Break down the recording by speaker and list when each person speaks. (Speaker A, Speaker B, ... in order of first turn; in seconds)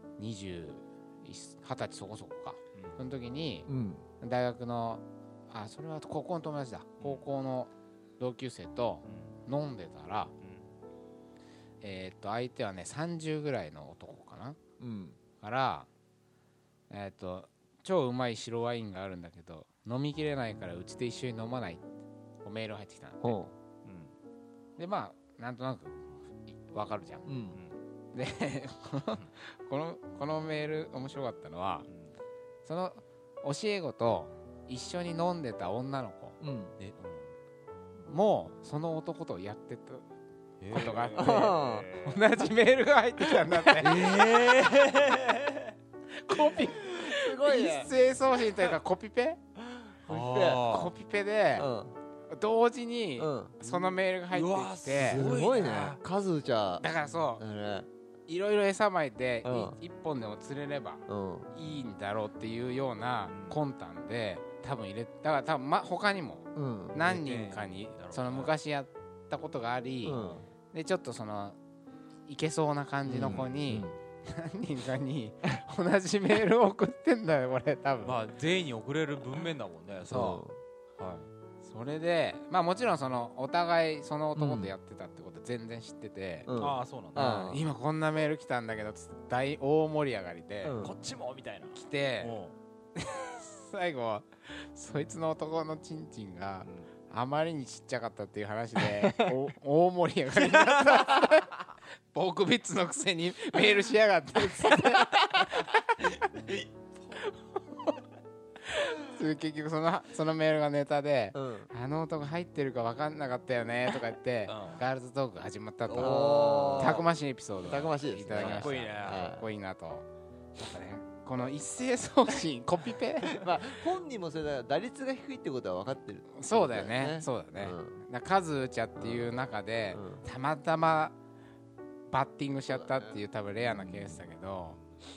Speaker A: 0.2-3.7, 4.2-10.3, 11.8-14.6, 15.4-15.9, 16.9-21.9, 22.4-23.4, 24.8-27.4, 28.1-31.9, 32.6-36.4, 38.1-40.0, 40.7-44.0, 46.1-49.4, 50.4-51.7, 52.3-55.3, 56.8-57.4, 58.3-71.6, 72.3-78.2, 81.6-86.6, 87.1-90.8, 91.7-92.4, 93.0-106.6, 108.7-120.0, 120.5-123.8, 126.3-131.2, 132.1-134.8
Speaker B: 2.7-3.0, 7.0-7.3, 9.1-9.3, 10.4-10.7, 23.8-24.1, 27.5-27.8, 31.9-32.1, 36.8-37.3, 40.6-42.2, 43.8-45.7, 50.0-50.9, 53.6-56.0, 61.6-61.9, 63.3-63.6, 67.0-68.5, 70.2-70.4, 73.2-73.6, 78.0-80.4, 81.0-81.3, 86.6-87.5, 90.8-92.5, 100.6-101.2, 114.5-114.9, 115.8-117.0, 118.3-119.3
Speaker C: 3.7-4.0, 14.8-15.2, 23.2-23.5, 27.2-27.6, 36.4-36.8, 41.1-41.9, 43.5-45.1, 46.7-47.9, 49.7-50.7, 51.5-51.9, 53.2-53.5, 54.9-56.9, 57.4-57.9, 59.4-59.8, 61.1-61.5, 66.5-67.0, 70.0-70.4, 73.0-74.0, 80.1-80.6, 84.3-84.7, 86.4-87.7, 90.6-91.0, 111.3-111.7, 116.0-117.0, 117.6-119.5, 123.4-128.0, 129.0-129.3, 129.9-130.2, 132.7-134.2